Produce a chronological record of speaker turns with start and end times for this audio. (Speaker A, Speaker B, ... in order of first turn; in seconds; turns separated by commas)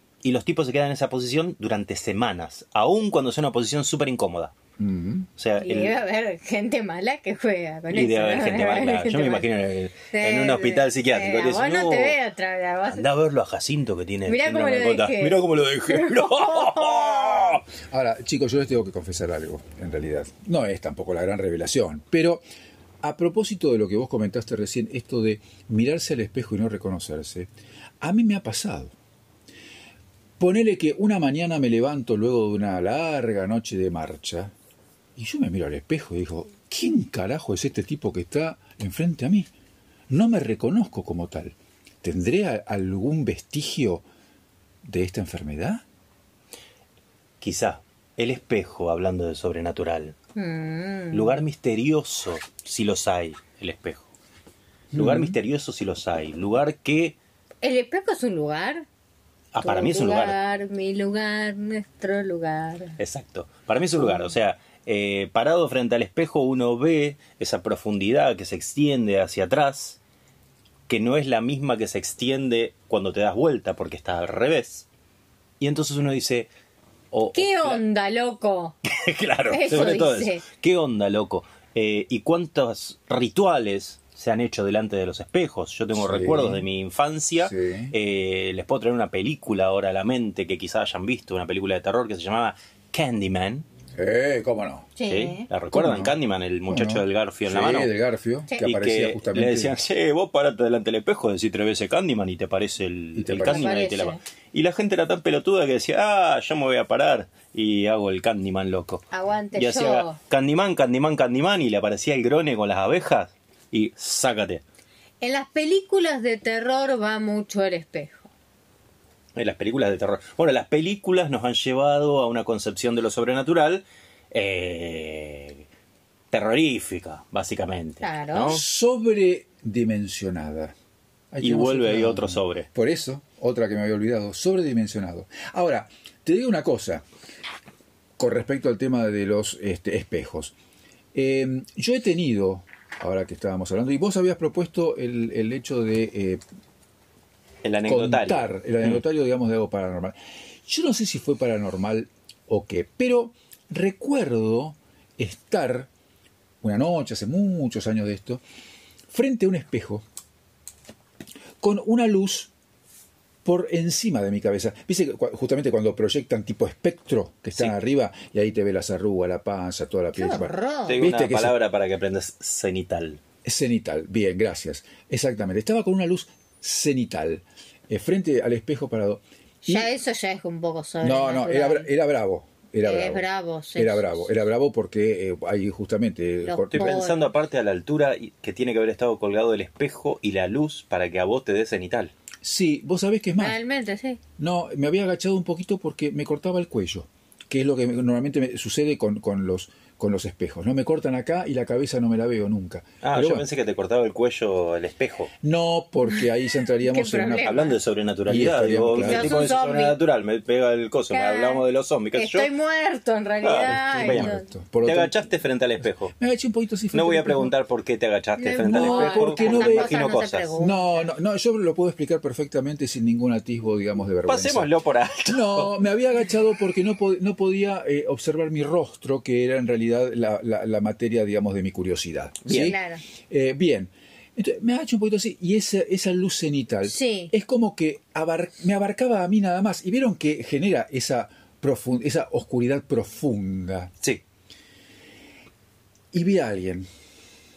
Speaker A: 0.2-4.5, Speaker B: 4.8-5.3, Speaker A: 5.4-6.0, Speaker C: 5.6-9.5, Speaker A: 7.9-12.2, Speaker C: 10.1-13.1, Speaker A: 12.8-17.6, Speaker C: 14.2-17.6, Speaker B: 17.8-22.4, Speaker B: 23.0-28.9, Speaker B: 30.4-34.5, Speaker B: 35.1-39.5, Speaker B: 40.1-44.0, Speaker B: 44.8-45.8, Speaker A: 47.4-50.1, Speaker C: 50.4-51.4, Speaker A: 51.1-54.1, Speaker B: 54.9-55.4, Speaker A: 54.9-57.2, Speaker C: 57.6-58.8, Speaker A: 59.5-60.4, Speaker C: 59.6-63.0, Speaker A: 63.0-70.0, Speaker A: 70.9-74.8, Speaker A: 75.6-76.5, Speaker A: 77.1-77.8, Speaker C: 77.3-78.7, Speaker A: 78.8-93.7, Speaker C: 79.5-80.4, Speaker B: 85.9-86.6, Speaker B: 87.4-87.9, Speaker B: 94.0-94.9, Speaker C: 95.0-95.5, Speaker A: 95.1-97.9, Speaker B: 95.7-96.2, Speaker B: 96.7-99.8, Speaker A: 98.6-109.0, Speaker B: 103.1-103.7, Speaker C: 103.4-104.2, Speaker C: 109.1-110.2, Speaker A: 109.5-114.6, Speaker C: 115.2-118.3, Speaker A: 119.3-125.6, Speaker A: 126.3-128.6, Speaker C: 128.0-128.6, Speaker B: 128.3-130.7, Speaker B: 131.3-137.0, Speaker A: 131.4-132.7, Speaker B: 138.2-140.5, Speaker B: 141.1-146.4, Speaker A: 147.6-149.0, Speaker B: 147.9-155.9, Speaker B: 156.6-158.4, Speaker B: 159.1-160.0, Speaker B: 161.6-162.5, Speaker B: 163.4-171.6, Speaker C: 170.1-171.0, Speaker A: 170.8-173.2, Speaker B: 173.4-179.9, Speaker C: 179.6-181.9, Speaker B: 181.0-187.0, Speaker C: 182.8-184.3, Speaker C: 186.4-187.3, Speaker A: 186.7-192.1, Speaker B: 192.4-193.6, Speaker C: 193.4-194.2, Speaker B: 194.4-203.5, Speaker A: 203.0-205.3, Speaker B: 205.4-207.6, Speaker C: 206.1-207.8, Speaker A: 207.4-212.5, Speaker B: 208.3-209.5, Speaker C: 208.9-210.0, Speaker C: 211.1-214.5, Speaker A: 213.4-214.3, Speaker B: 213.6-217.6, Speaker A: 214.8-216.1, Speaker A: 216.9-220.5, Speaker C: 218.4-221.1, Speaker B: 218.6-224.7, Speaker A: 224.2-225.7, Speaker B: 225.3-243.9, Speaker A: 232.4-232.7, Speaker C: 232.5-233.0, Speaker C: 236.8-237.3, Speaker B: 246.1-246.9